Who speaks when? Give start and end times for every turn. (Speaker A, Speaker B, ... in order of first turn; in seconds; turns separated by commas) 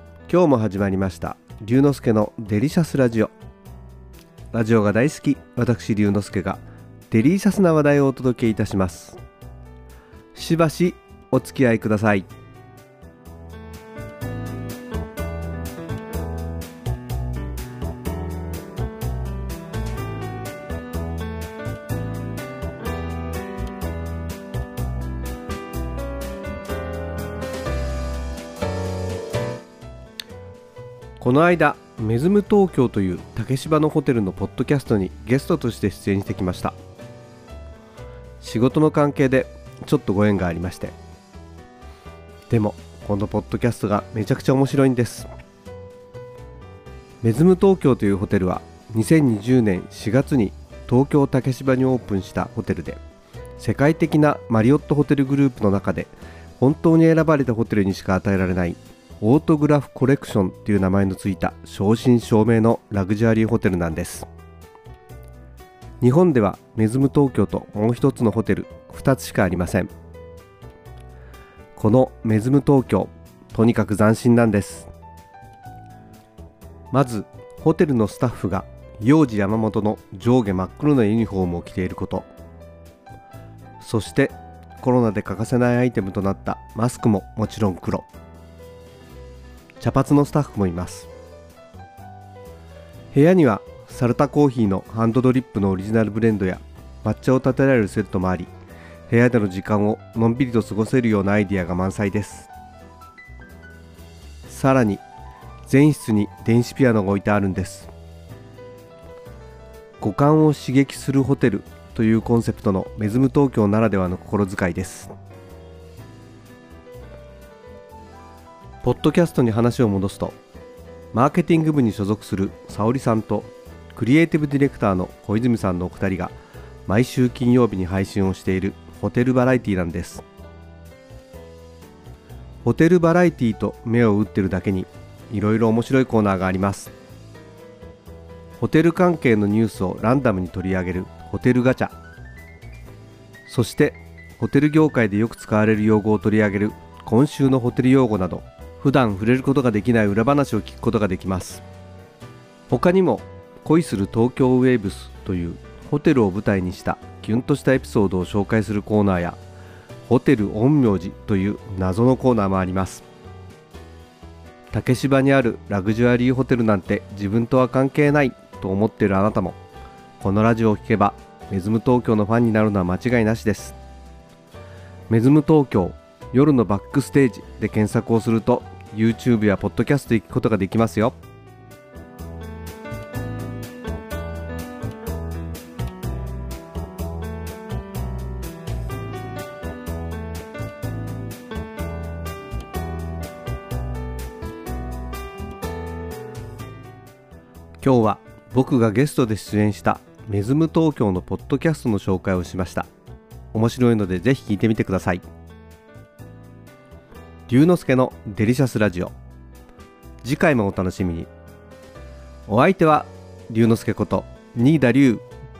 Speaker A: 0.3-3.3, Speaker A: 4.5-9.2, Speaker A: 10.3-12.3, Speaker A: 31.2-36.8, Speaker A: 38.4-41.0, Speaker A: 42.5-45.3, Speaker A: 47.2-53.0, Speaker A: 53.6-64.3, Speaker A: 66.0-69.9, Speaker A: 71.8-74.9, Speaker A: 76.9-82.3, Speaker A: 83.8-88.1, Speaker A: 89.8-91.1, Speaker A: 93.1-98.5, Speaker A: 99.1-102.5, Speaker A: 104.5-105.0, Speaker A: 105.7-107.9, Speaker A: 110.0-115.1, Speaker A: 118.8-120.4, Speaker A: 121.1-126.4, Speaker A: 126.9-130.2, Speaker A: 132.6-136.9, Speaker A: 138.6-141.9, Speaker A: 143.5-151.6, Speaker A: 152.7-159.4, Speaker A: 160.0-163.1, Speaker A: 164.7-169.6, Speaker A: 170.2-173.8, Speaker A: 175.1-181.2, Speaker A: 197.8-202.9, Speaker A: 203.5-205.2, Speaker A: 207.5-209.2, Speaker A: 210.2-211.3, Speaker A: 212.5-215.3